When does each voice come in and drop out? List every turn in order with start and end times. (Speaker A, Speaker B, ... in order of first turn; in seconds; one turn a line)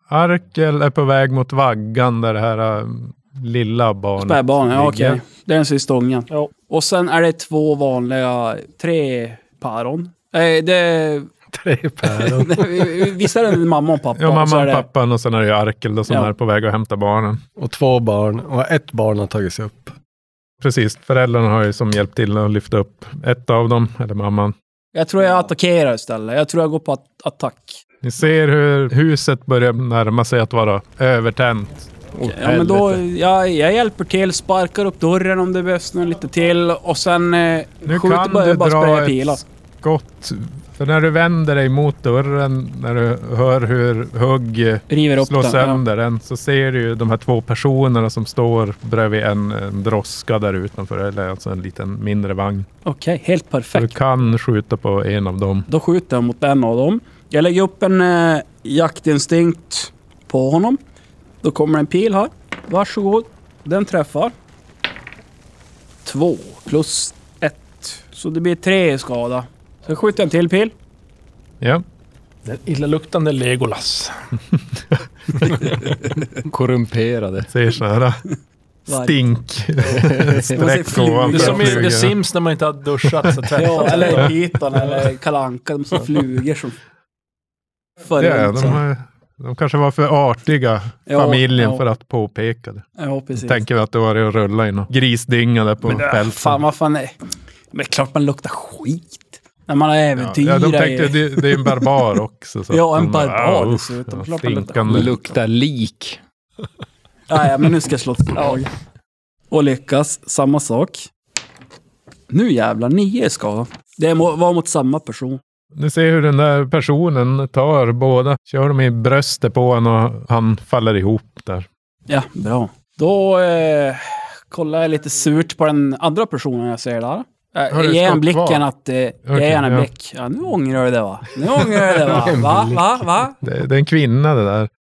Speaker A: 0.1-5.2
Speaker B: 4.2-11.3
Speaker C: 11.5-13.1
Speaker B: 12.2-14.8
Speaker A: 14.2-17.4
Speaker C: 17.6-19.9
Speaker A: 20.6-24.6
Speaker B: 24.9-27.8
Speaker A: 28.0-31.9
Speaker D: 32.1-33.0
Speaker B: 32.2-39.4
Speaker A: 37.9-52.7
Speaker B: 44.9-45.8
Speaker B: 52.9-53.9
Speaker A: 53.7-55.7
Speaker B: 55.7-60.8
Speaker B: 61.4-64.3
Speaker B: 66.0-70.7
Speaker E: 72.5-74.1
Speaker D: 76.4-77.5
Speaker A: 77.5-78.2
Speaker B: 78.9-79.2
Speaker A: 78.9-82.2
Speaker D: 79.9-80.5
Speaker B: 80.4-82.0
Speaker E: 81.3-84.4
Speaker A: 83.0-83.3
Speaker B: 83.5-86.8
Speaker B: 88.0-88.8
Speaker A: 88.2-96.6
Speaker B: 91.1-91.8
Speaker B: 93.0-93.6
Speaker B: 95.8-97.1
Speaker B: 97.7-101.9
Speaker A: 100.2-105.1
Speaker B: 102.7-105.4
Speaker D: 104.9-106.2
Speaker B: 107.3-108.7
Speaker B: 109.5-111.1
Speaker B: 112.3-115.4
Speaker A: 115.8-121.7
Speaker B: 122.1-133.4
Speaker A: 127.7-128.6
Speaker A: 129.3-129.9
Speaker C: 132.1-132.9
Speaker A: 133.4-134.7